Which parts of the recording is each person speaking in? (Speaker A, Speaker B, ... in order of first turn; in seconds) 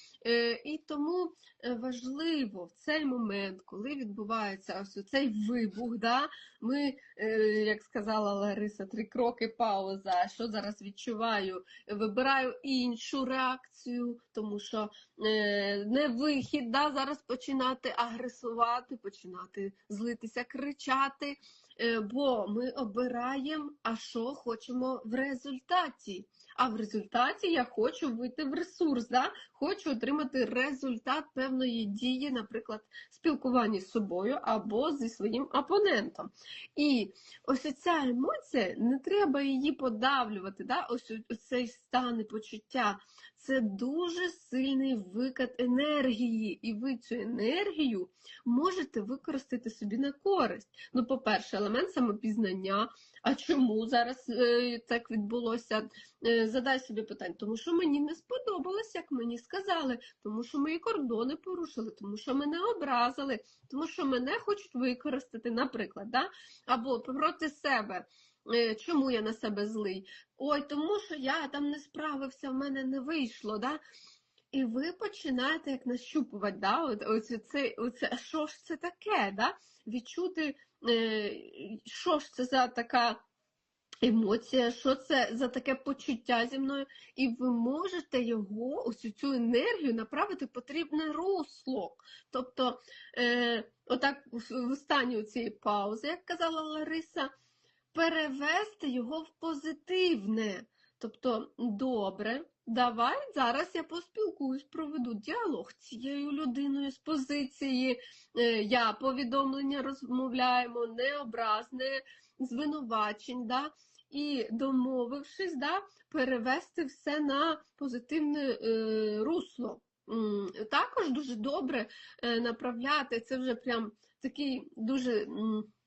Speaker A: 0.2-73.8, 74.5-83.2, 84.0-97.3, 97.9-125.7